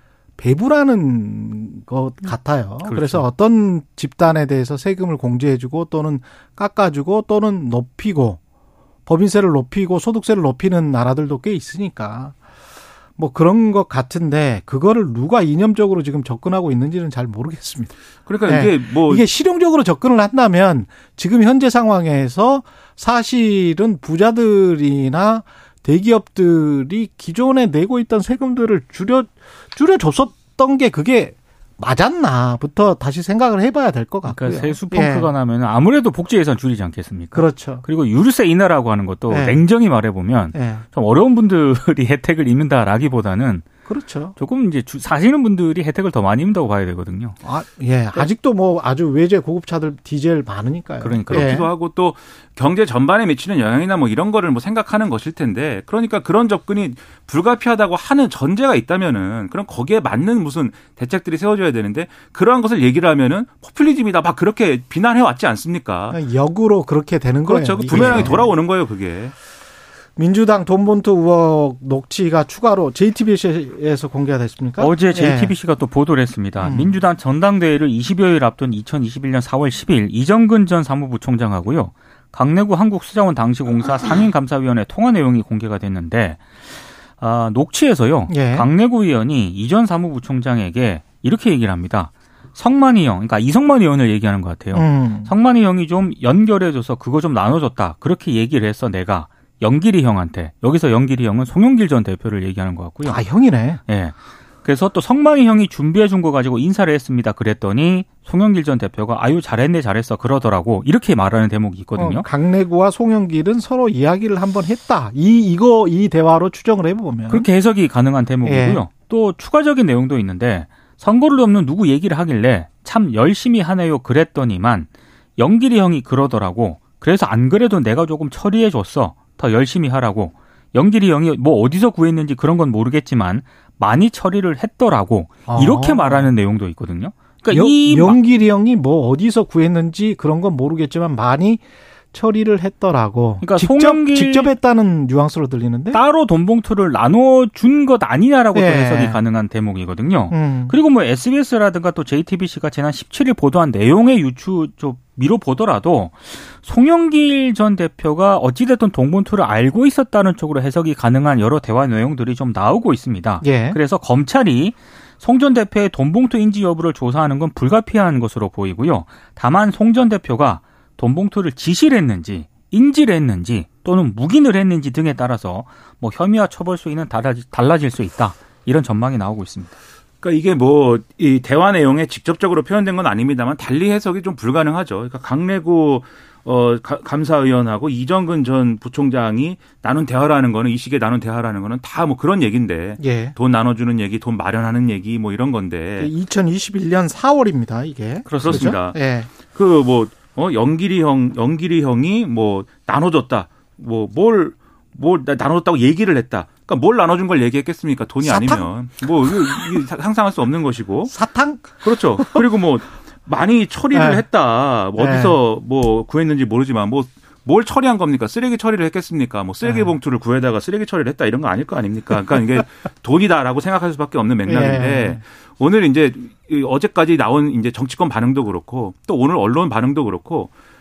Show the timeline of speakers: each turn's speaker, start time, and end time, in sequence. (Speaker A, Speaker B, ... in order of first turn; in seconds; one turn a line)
Speaker A: 0.4-8.4
Speaker B: 2.8-3.2
Speaker A: 9.1-12.3
Speaker A: 13.2-35.3
Speaker C: 18.3-19.3
Speaker B: 34.2-43.6
Speaker A: 37.3-37.9
Speaker A: 39.3-39.7
Speaker A: 40.5-40.8
Speaker A: 43.9-44.4
Speaker B: 44.3-47.4
Speaker A: 47.4-51.7
Speaker B: 51.0-51.5
Speaker C: 51.3-66.2
Speaker A: 66.1-68.5
Speaker C: 67.4-69.3
Speaker B: 67.9-68.4
Speaker A: 70.2-75.5
Speaker B: 74.8-103.2
Speaker A: 76.6-77.0
Speaker A: 88.3-88.7
Speaker A: 94.7-95.3
Speaker A: 103.0-103.8
Speaker B: 103.8-112.2
Speaker A: 112.0-117.5
Speaker B: 117.3-138.2
Speaker A: 118.4-118.8
Speaker A: 135.5-136.3
Speaker A: 137.5-146.0
Speaker B: 143.4-144.5
Speaker B: 145.9-179.7
Speaker A: 148.5-149.2
Speaker A: 150.3-150.8
Speaker A: 163.4-163.8
Speaker C: 180.2-196.1
Speaker A: 193.0-193.3
Speaker A: 196.0-199.3
Speaker B: 198.2-198.8
Speaker C: 198.4-211.1
Speaker A: 208.2-208.7
Speaker A: 211.1-212.4
Speaker C: 211.8-230.5
Speaker A: 213.9-214.2
Speaker A: 215.0-215.4
Speaker A: 219.6-219.9
Speaker A: 224.4-225.2